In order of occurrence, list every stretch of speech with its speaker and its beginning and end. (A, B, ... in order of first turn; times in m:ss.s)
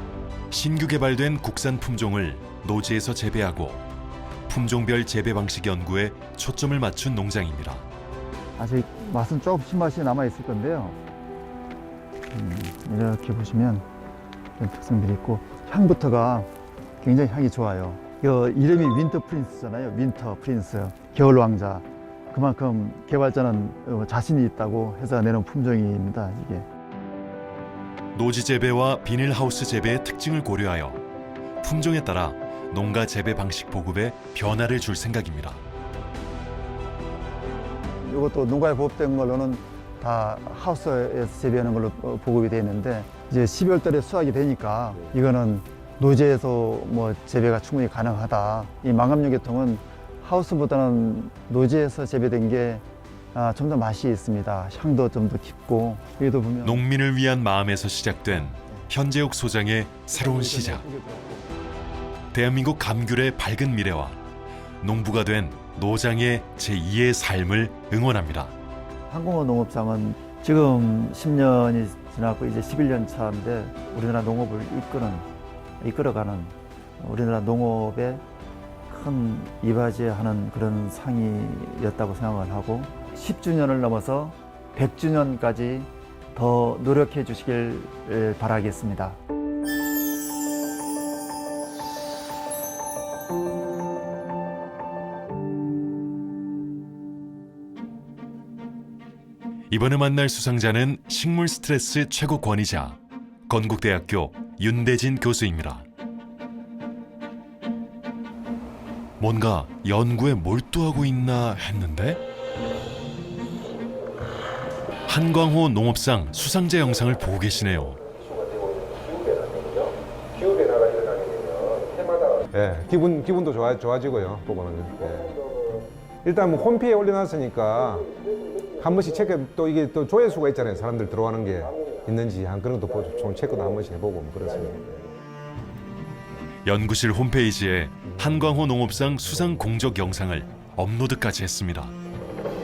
0:00.5-0:03.8 A
0:04.5-0:07.8 A
0:08.6-0:11.0 B
0:12.3-0:13.8 B
0:14.6-0:16.5 B
0:17.0-0:26.6 B
0:28.1-0:31.0 A
0:31.6-0:35.6 A
0:38.0-0:52.8 B
0:53.3-0:56.8 B
0:56.6-1:00.8 A
0:58.5-0:58.8 B
1:00.1-1:01.4 B
1:02.3-1:04.2 A
1:04.8-1:08.5 A
1:09.1-1:15.2 B
1:15.8-1:18.2 B
1:18.9-1:29.2 B
1:39.7-1:45.8 A
1:49.2-1:52.2 A
1:55.1-1:58.0 A
1:58.2-2:15.2 C
2:16.6-2:21.9 A